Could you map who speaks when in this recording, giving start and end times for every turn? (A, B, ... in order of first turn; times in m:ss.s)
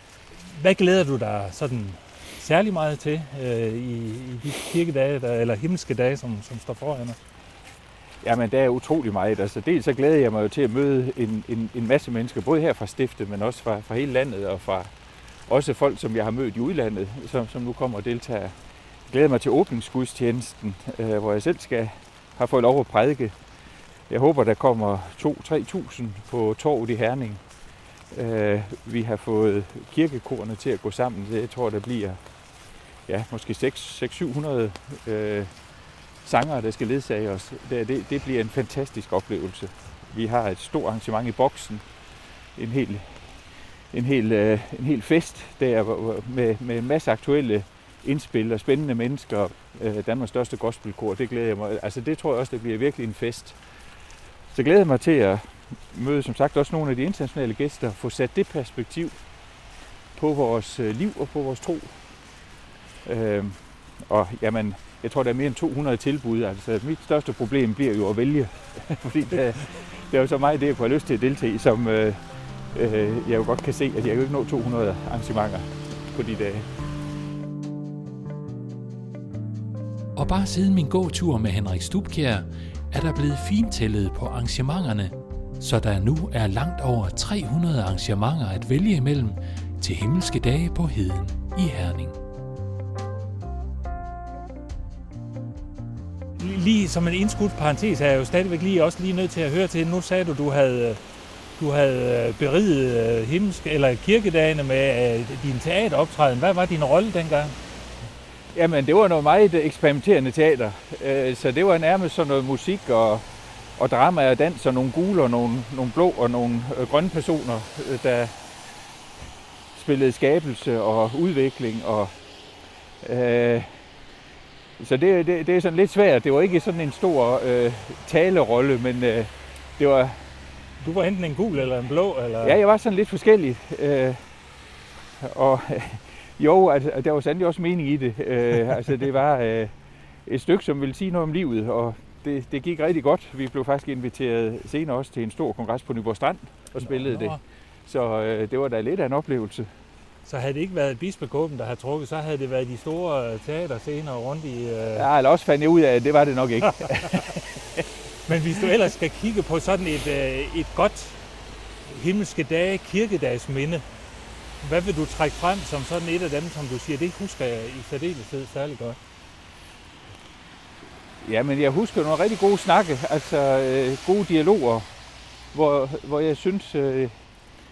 0:00.4-0:07.2 A
0:08.2-0:14.9 B
0:15.5-0:18.5 B
0:19.1-0:23.3 B
0:24.1-0:27.4 B
0:28.1-0:32.2 B
0:33.1-0:35.5 B
0:36.2-0:41.8 B
0:42.6-0:43.4 B
0:43.9-0:53.6 B
0:54.5-0:59.1 B
1:00.1-1:02.0 B
1:03.0-1:12.2 B
1:12.7-1:16.7 B
1:20.2-1:32.2 C
1:36.4-1:41.0 A
1:41.6-1:47.6 A
1:48.5-1:53.2 B
1:53.8-1:58.3 B
1:59.7-2:02.1 B
2:03.0-2:03.7 B
2:04.8-2:10.2 B
2:10.8-2:12.6 A
2:12.4-2:14.2 B
2:15.2-2:19.7 B
2:20.2-2:29.7 B
2:26.8-2:27.4 A
2:30.2-2:35.0 A
2:34.9-2:37.8 B
2:38.2-2:41.2 A
2:41.8-2:43.8 A
2:44.6-2:49.0 A
2:51.2-2:54.8 B
2:55.5-2:57.1 B